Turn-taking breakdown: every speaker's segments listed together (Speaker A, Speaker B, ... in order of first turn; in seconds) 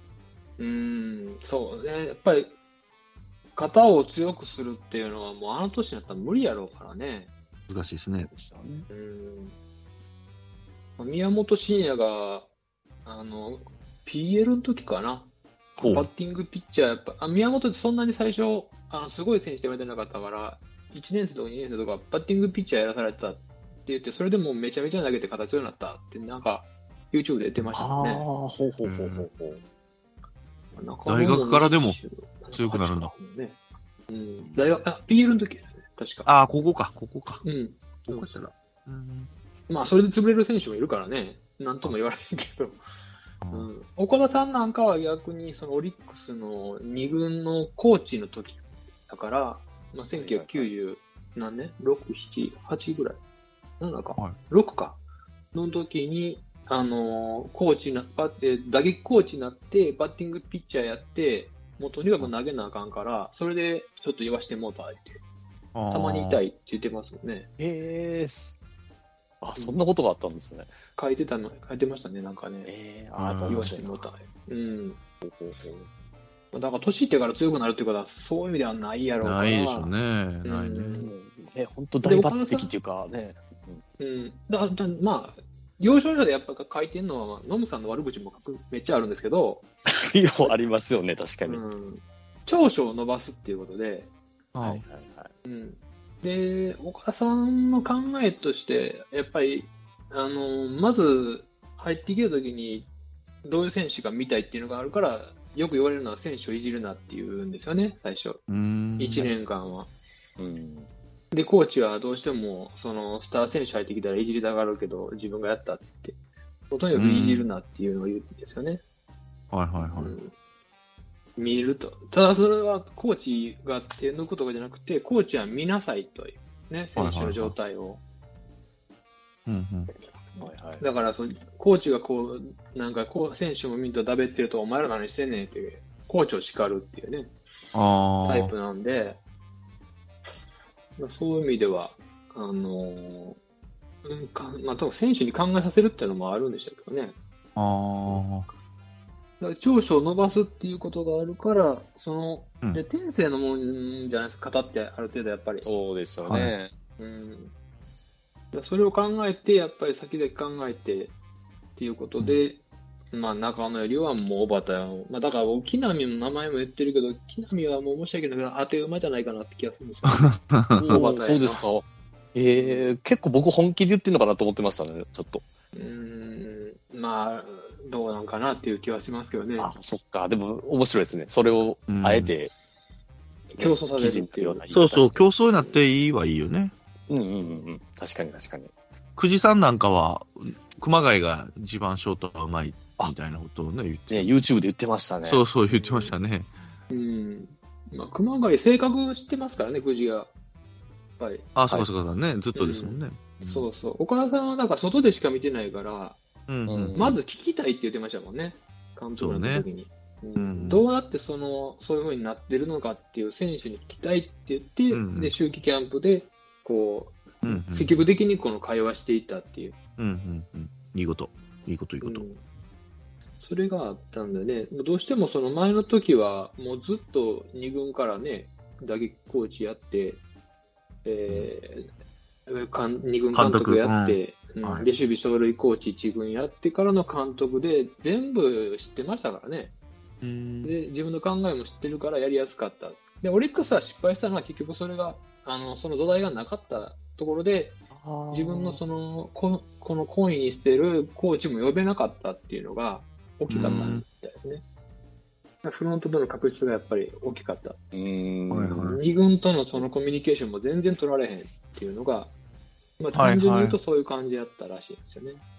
Speaker A: 0.6-2.5, 3.5-7.3, 8.9-9.6, 11.0-12.5, 13.1-15.3, 15.8-28.3, 30.7-33.6, 34.1-36.3, 37.4-38.5, 39.7-42.8, 43.5-53.2, 53.8-55.0, 55.5-65.2, 65.9-67.5, 71.0-72.7, 73.5-75.0, 76.5-79.9, 80.4-81.1, 82.0-82.7, 84.0-89.6, 91.5-94.1, 95.5-102.9, 103.4-108.4, 109.0-109.9, 111.3-116.2, 116.7-118.8, 119.8-120.3, 121.4-128.0, 130.8-137.3, 138.2-139.2, 141.0-143.4, 144.0-147.2, 149.4-155.7, 157.0-157.5, 158.5-161.1, 161.8-162.6, 163.1-171.6, 172.5-172.9, 175.8-179.7, 183.5-184.6, 195.7-196.1, 196.9-200.3, 201.2-201.5, 202.6-206.2, 207.0-219.8, 222.0-222.4, 223.4-230.2, 231.1-231.9, 232.5-239.7, 240.6-247.8, 248.3-254.6, 255.6-257.8, 258.9-262.3, 263.0-265.4
Speaker B: 7.7-8.3, 28.8-29.3, 31.1-32.0, 32.5-33.1, 36.3-37.4, 38.0-39.3, 43.4-43.7, 65.8-66.4, 73.2-73.8, 79.2-81.0, 94.5-94.8, 108.5-109.3, 116.9-117.5, 119.5-120.1, 127.0-127.5, 129.5-129.9, 137.7-138.5, 147.6-148.5, 156.3-156.5, 170.1-171.0, 181.9-182.3, 184.7-186.7, 189.2-194.3, 195.2-196.5, 201.6-203.7, 206.5-207.1, 209.2-209.7, 210.4-210.9, 214.9-215.3, 217.4-218.0, 220.0-222.3, 233.3-234.9, 240.2-240.7, 253.5-254.0, 258.5-259.0, 263.1-263.8
Speaker C: 8.2-8.9, 15.8-16.1, 27.8-29.6, 50.1-50.7, 67.6-68.6, 69.4-70.7, 72.7-74.1, 75.2-75.9, 81.0-83.8, 89.9-91.6, 94.6-95.3, 110.4-110.9, 130.4-130.8, 155.6-156.7, 170.8-175.4, 179.6-182.5, 183.6-185.4, 187.1-188.7, 194.1-195.4, 206.7-207.2, 247.9-248.8, 253.6-253.9, 257.9-259.0